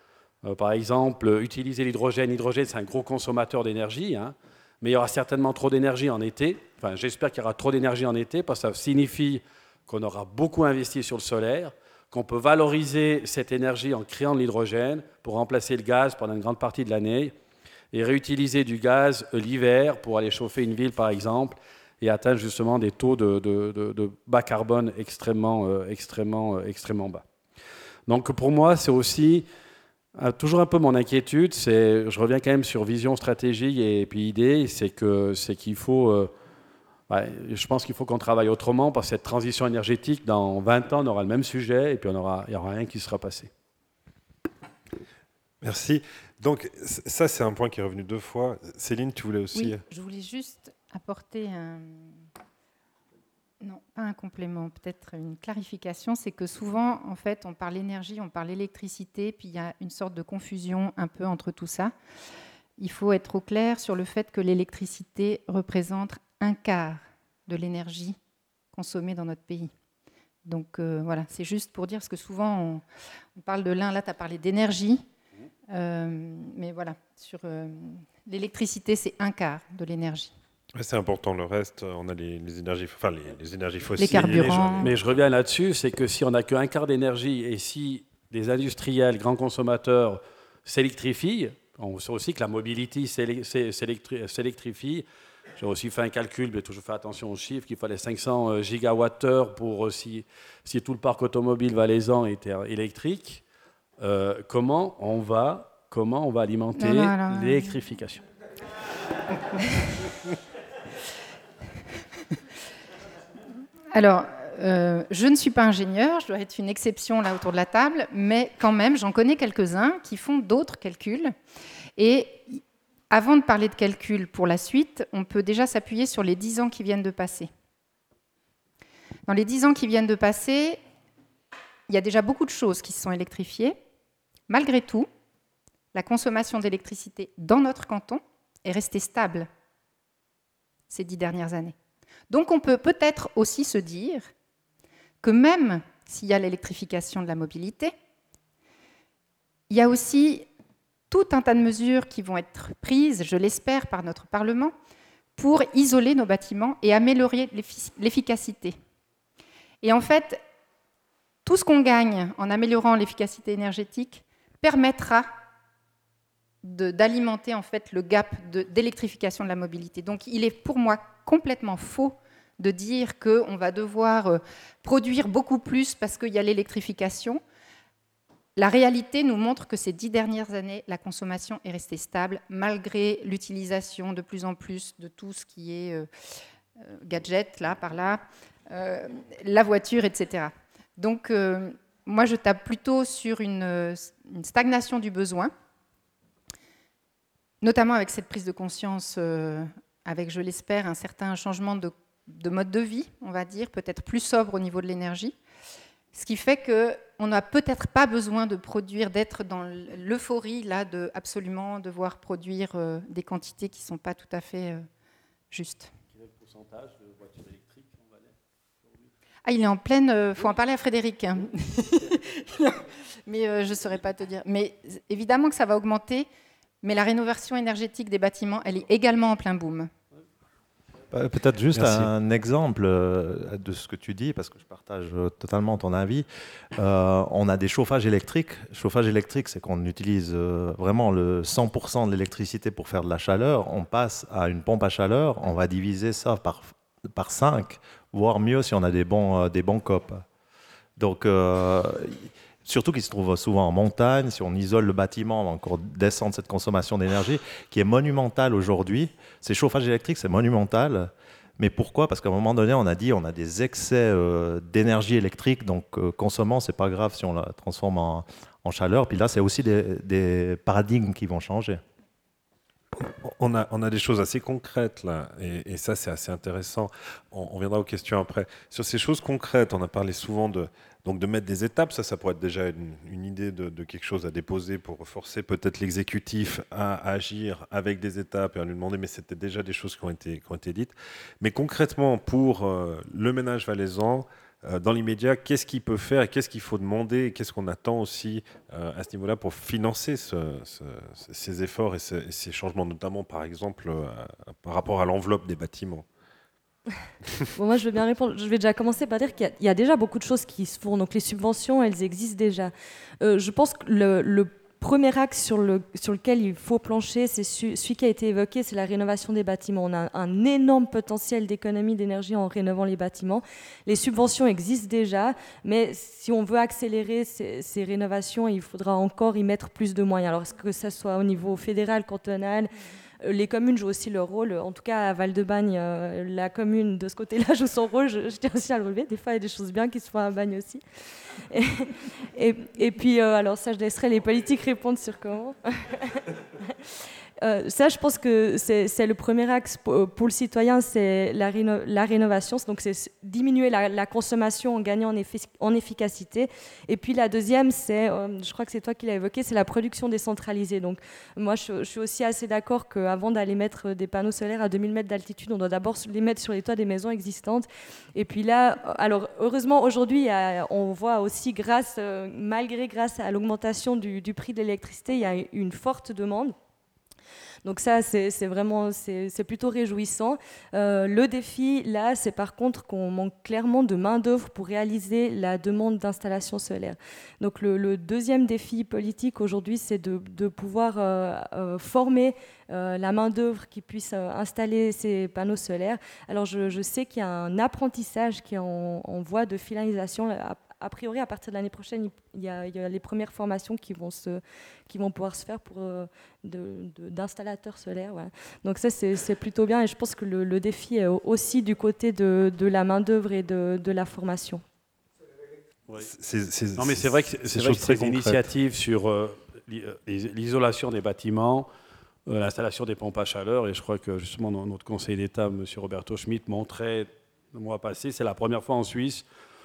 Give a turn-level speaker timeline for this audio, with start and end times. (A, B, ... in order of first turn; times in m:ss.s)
0:00.4-0:17.4 A
0:17.9-0:27.2 A
0:28.1-0:29.5 A
0:30.2-0:36.3 A
0:37.1-0:43.5 A
0:45.6-0:49.8 B
0:49.5-0:52.1 C
0:53.6-1:01.9 C
1:02.8-1:08.2 C
1:08.7-1:09.7 C
1:10.4-1:12.8 C
1:13.4-1:15.0 C
1:15.7-1:20.3 C
1:20.7-1:24.9 B
1:24.0-1:24.9 C
1:24.1-1:35.0 A
1:35.6-1:43.4 A
1:44.0-1:48.2 A
1:46.8-1:47.8 C
1:53.9-2:01.3 C
2:02.0-2:07.5 C
2:09.3-2:10.8 C
2:11.9-2:13.8 C
2:14.5-2:15.1 C
2:15.9-2:19.5 C
2:20.9-2:21.8 C
2:22.3-2:24.3 C
2:25.2-2:27.9 C
2:29.7-2:30.5 C
2:31.1-2:34.7 C
2:35.4-2:38.8 C
2:39.8-2:40.4 C
2:41.4-2:45.3 C
2:46.6-2:57.4 C
2:58.6-3:06.1 C
3:06.8-3:15.5 C
3:17.6-3:25.4 C
3:26.1-3:34.9 C
3:35.5-3:35.9 C
3:36.1-3:38.3 A
3:39.4-3:46.3 C
3:46.8-3:49.9 C
3:51.1-4:10.2 D
3:51.7-3:52.1 B
4:11.0-4:31.8 D
4:32.9-5:06.0 B
5:07.6-6:16.5 E
6:17.6-6:54.6 E
6:56.0-6:58.4 B
6:56.8-7:01.7 A
7:02.3-7:09.2 A